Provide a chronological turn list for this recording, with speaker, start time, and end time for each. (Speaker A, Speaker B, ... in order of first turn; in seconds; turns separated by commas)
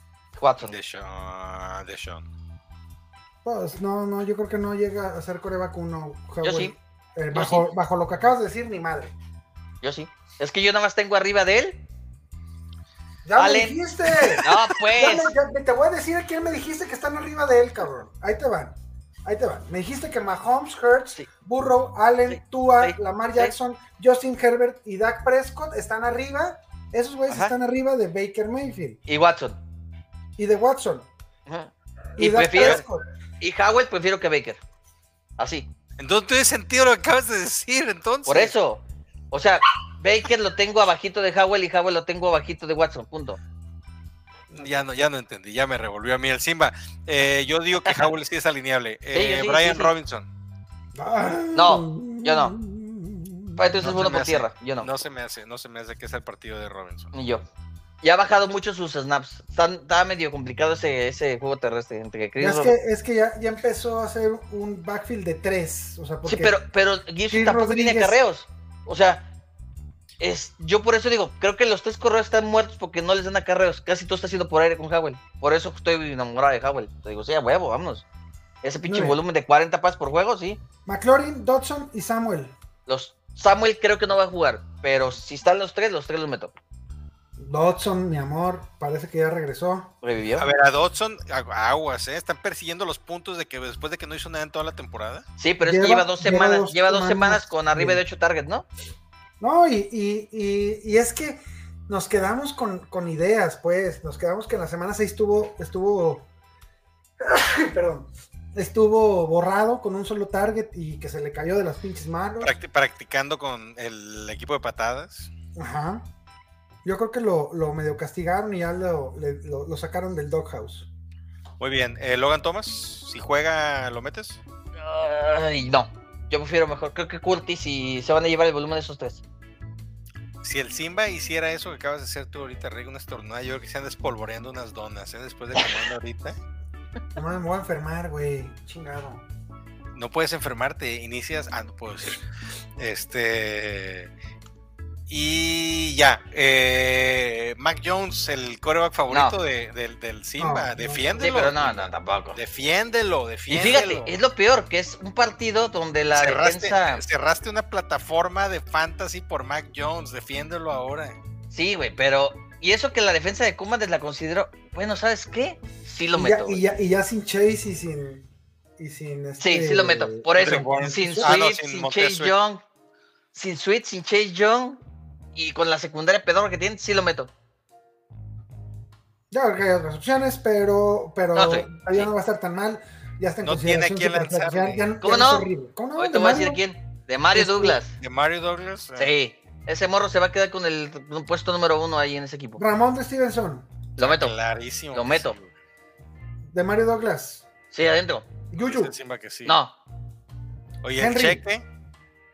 Speaker A: 0.4-0.8, Speaker B: 0.6-2.2, Speaker C: 3.5-9.2, Speaker A: 6.4-6.7, Speaker A: 7.3-7.7, Speaker A: 9.8-11.8, Speaker C: 13.2-29.0, Speaker A: 13.4-15.3, Speaker A: 22.3-23.6, Speaker A: 27.3-27.5, Speaker A: 29.1-29.6, Speaker C: 30.4-31.1, Speaker A: 31.5-32.8, Speaker C: 32.2-33.0, Speaker A: 33.4-34.6, Speaker A: 35.4-35.7, Speaker B: 36.0-38.5, Speaker A: 38.3-43.4, Speaker B: 44.5-50.3, Speaker A: 47.9-48.1, Speaker A: 49.1-49.9, Speaker C: 50.9-54.1, Speaker A: 51.5-52.6, Speaker A: 53.6-54.9, Speaker B: 53.8-57.1, Speaker A: 57.1-57.5, Speaker A: 58.0-62.8, Speaker C: 62.4-66.6, Speaker A: 66.2-69.3, Speaker C: 67.3-68.2, Speaker A: 70.2-78.1, Speaker A: 78.6-80.6, Speaker C: 78.8-79.2, Speaker C: 80.9-82.6, Speaker A: 82.9-86.5, Speaker C: 87.4-89.9, Speaker A: 90.0-90.5, Speaker B: 90.4-95.3, Speaker A: 95.4-98.7, Speaker C: 95.6-98.0, Speaker C: 99.4-106.3, Speaker C: 107.2-112.6, Speaker B: 112.4-115.3, Speaker C: 115.6-116.1, Speaker C: 116.8-120.9, Speaker B: 121.6-124.4, Speaker A: 124.8-129.2, Speaker B: 130.4-136.4, Speaker A: 135.6-135.8, Speaker C: 137.2-139.2, Speaker B: 139.9-142.2, Speaker B: 142.8-144.1, Speaker B: 145.1-154.1, Speaker A: 149.1-149.3, Speaker C: 150.4-151.5, Speaker A: 151.2-152.4, Speaker A: 153.5-157.0, Speaker B: 156.1-161.2, Speaker A: 161.5-166.6, Speaker C: 166.2-168.3, Speaker C: 168.8-171.3, Speaker A: 169.4-172.6, Speaker B: 170.4-172.3, Speaker A: 173.3-174.8, Speaker A: 175.3-177.3, Speaker C: 179.3-186.6, Speaker A: 181.3-182.1, Speaker B: 183.4-184.9, Speaker A: 185.0-187.9, Speaker C: 187.3-187.8, Speaker B: 188.0-189.1, Speaker A: 189.0-192.6, Speaker C: 192.6-193.7, Speaker A: 194.0-194.3, Speaker B: 194.0-195.5, Speaker A: 194.9-195.4, Speaker C: 196.5-197.4, Speaker A: 197.7-198.3, Speaker C: 198.5-199.0, Speaker B: 198.6-199.6, Speaker A: 199.4-199.8, Speaker B: 200.8-201.6, Speaker C: 201.0-201.4